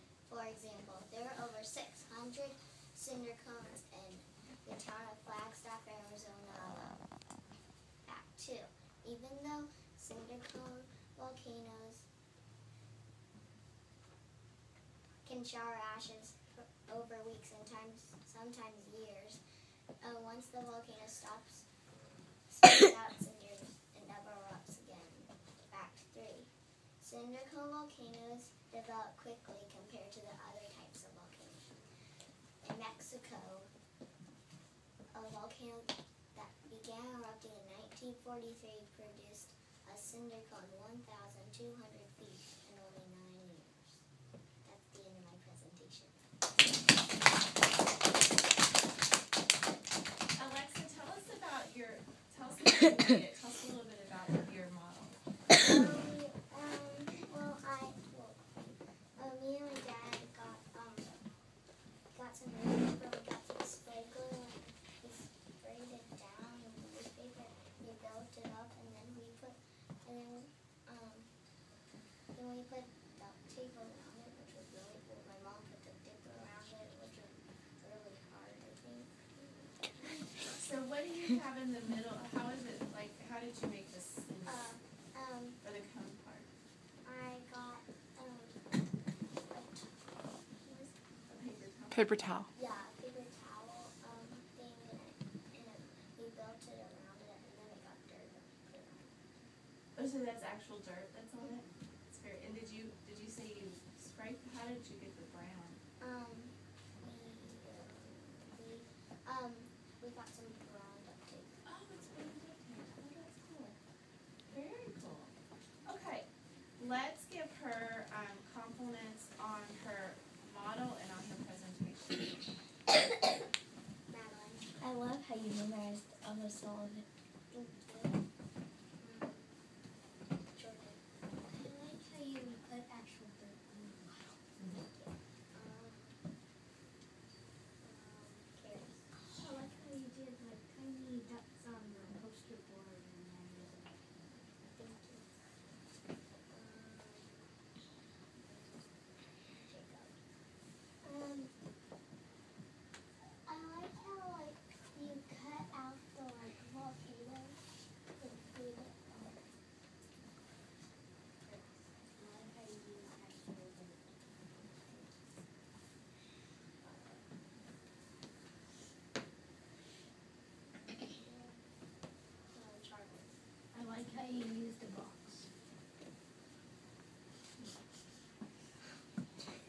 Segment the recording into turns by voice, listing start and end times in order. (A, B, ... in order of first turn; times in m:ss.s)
0:00.3-0:07.0 A
0:08.0-0:12.1 A
0:15.2-0:19.4 A
0:20.0-0:21.7 A
0:22.5-0:31.7 A
0:32.6-0:33.7 A
0:35.1-0:44.0 A
0:44.6-0:46.2 A
0:50.4-0:55.2 B
0:55.5-1:01.1 A
1:02.1-1:11.3 A
1:12.3-1:20.2 A
1:20.5-1:24.6 B
1:24.4-1:25.6 A
1:25.6-1:26.5 B
1:27.0-1:28.7 A
1:29.5-1:31.3 A
1:31.3-1:32.4 B
1:32.5-1:39.1 A
1:40.0-1:45.8 B
1:46.0-1:51.6 A
1:51.6-1:53.8 B
1:54.5-1:55.3 B
1:55.8-2:02.4 B
2:04.1-2:04.9 A
2:07.5-2:08.2 A
2:09.0-2:09.6 A
2:10.5-2:11.0 A
2:11.5-2:14.4 C
2:14.9-2:16.2 A
2:17.8-2:19.1 A
2:19.3-2:24.1 C
2:24.7-2:25.3 A
2:26.5-2:27.5 A
2:28.4-2:30.2 A
2:31.0-2:31.5 A
2:33.5-2:37.5 A
2:38.2-2:39.0 A
2:41.4-2:44.1 C
2:46.8-2:47.2 A
2:51.0-2:51.6 A
2:52.5-2:53.4 A
2:53.7-2:55.5 C